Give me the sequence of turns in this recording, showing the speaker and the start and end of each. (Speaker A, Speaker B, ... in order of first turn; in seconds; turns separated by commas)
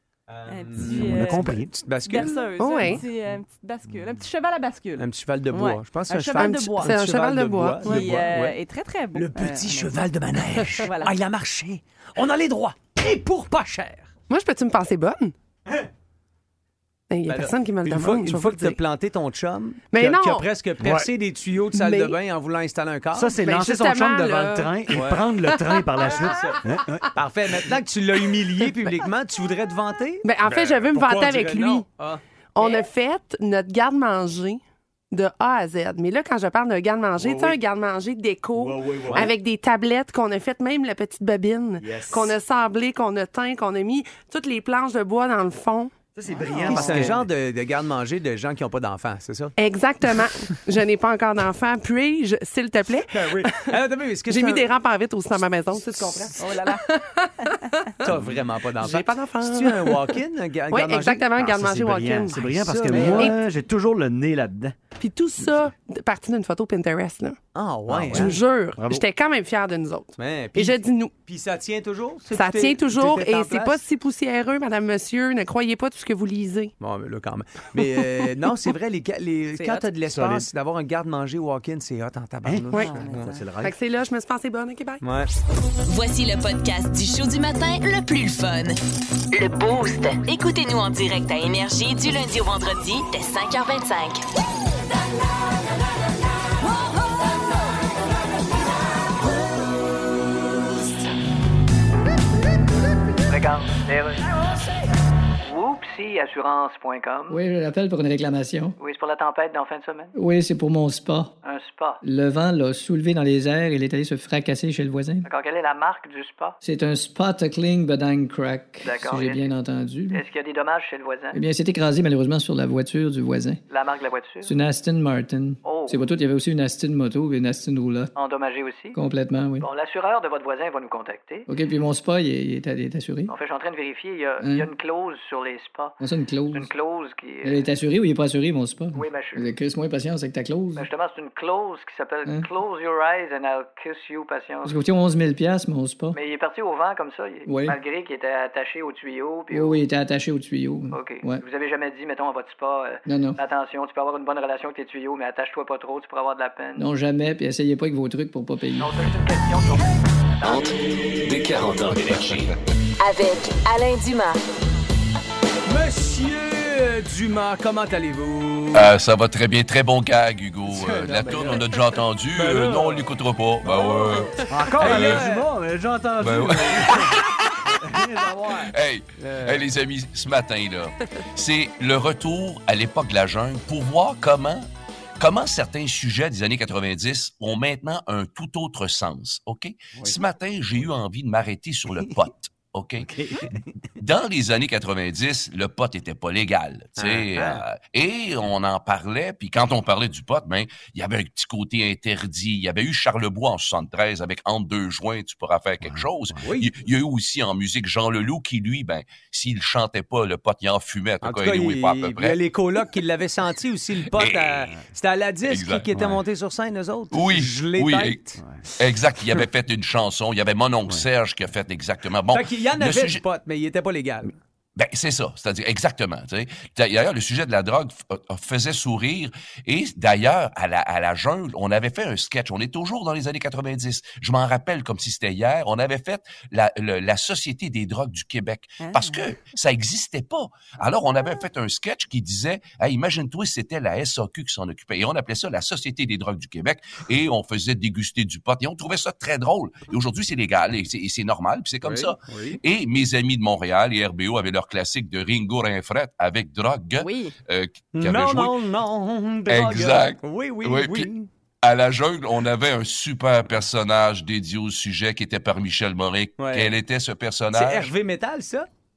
Speaker A: 0.3-3.0, Speaker B: 0.5-7.0, Speaker C: 0.8-1.7, Speaker D: 2.6-3.0, Speaker A: 5.0-8.6, Speaker D: 6.4-8.1, Speaker B: 7.8-9.9, Speaker A: 9.2-14.1, Speaker B: 10.8-11.1, Speaker D: 14.3-15.3, Speaker D: 17.1-18.8, Speaker A: 17.3-23.4, Speaker D: 19.9-20.5, Speaker C: 20.8-21.1, Speaker D: 21.7-22.2, Speaker C: 23.1-27.1, Speaker D: 23.4-24.8, Speaker A: 24.9-25.3, Speaker A: 26.0-32.2, Speaker D: 30.2-31.9, Speaker D: 32.5-45.9, Speaker C: 37.2-37.5, Speaker C: 38.5-39.3, Speaker C: 41.8-42.4, Speaker C: 46.2-47.3, Speaker D: 46.5-47.1, Speaker A: 46.6-49.5, Speaker D: 49.6-53.8, Speaker A: 53.1-54.7, Speaker D: 54.3-58.1, Speaker A: 55.8-56.4, Speaker B: 56.4-56.8, Speaker A: 58.0-61.3, Speaker D: 58.8-63.4, Speaker C: 61.4-64.8, Speaker A: 62.4-63.4, Speaker D: 65.0-67.4, Speaker A: 67.5-68.4, Speaker C: 67.9-69.0, Speaker D: 68.1-71.1, Speaker A: 70.2-73.8, Speaker D: 72.3-76.7, Speaker A: 76.8-83.4, Speaker B: 79.6-79.8, Speaker C: 80.1-80.5, Speaker C: 82.4-83.8, Speaker D: 82.7-83.0, Speaker B: 82.8-83.4, Speaker D: 83.6-85.0, Speaker A: 85.0-85.3, Speaker E: 85.9-88.8, Speaker E: 89.3-94.2, Speaker F: 103.3-104.3, Speaker F: 105.4-107.4, Speaker G: 107.3-108.8, Speaker F: 108.8-110.2, Speaker G: 110.2-111.3, Speaker F: 111.4-112.0, Speaker G: 112.0-115.3, Speaker F: 115.2-116.6, Speaker G: 116.6-120.2, Speaker F: 118.8-119.5, Speaker F: 120.1-121.4, Speaker G: 121.3-123.6, Speaker F: 123.7-124.5, Speaker G: 124.5-128.1, Speaker F: 125.6-126.0, Speaker F: 128.2-129.0, Speaker G: 129.0-129.7, Speaker F: 129.6-131.5, Speaker G: 131.5-133.3, Speaker F: 133.3-136.0, Speaker G: 134.4-134.7, Speaker G: 136.0-136.7, Speaker F: 136.5-137.7, Speaker G: 137.4-140.9, Speaker F: 138.9-139.5, Speaker F: 140.8-144.8, Speaker G: 144.7-146.2, Speaker F: 146.1-149.8, Speaker G: 147.5-147.8, Speaker G: 149.5-151.4, Speaker F: 150.9-156.8, Speaker G: 153.1-153.4, Speaker G: 156.8-158.9, Speaker F: 158.8-160.7, Speaker H: 160.4-162.6, Speaker E: 163.0-164.4, Speaker A: 165.7-168.9, Speaker I: 168.7-175.2, Speaker A: 170.7-171.7, Speaker A: 172.3-173.1, Speaker A: 173.7-175.5, Speaker C: 174.5-177.2, Speaker I: 176.2-177.0, Speaker C: 177.7-178.6, Speaker I: 178.7-184.7, Speaker A: 179.2-179.7, Speaker I: 185.2-193.1, Speaker C: 193.0-193.6, Speaker I: 194.0-212.4, Speaker A: 197.0-197.6, Speaker C: 205.8-206.4, Speaker A: 206.4-206.7, Speaker A: 211.2-218.4, Speaker I: 214.1-214.7, Speaker I: 215.5-215.9, Speaker C: 215.9-216.2, Speaker I: 217.1-218.2, Speaker I: 218.8-223.2, Speaker A: 222.3-224.4, Speaker I: 224.8-258.6, Speaker B: 238.8-239.2, Speaker A: 251.8-252.6, Speaker B: 257.0-257.3, Speaker A: 257.9-261.3, Speaker I: 259.5-261.1, Speaker I: 261.6-267.9, Speaker A: 266.4-266.8, Speaker A: 267.5-268.7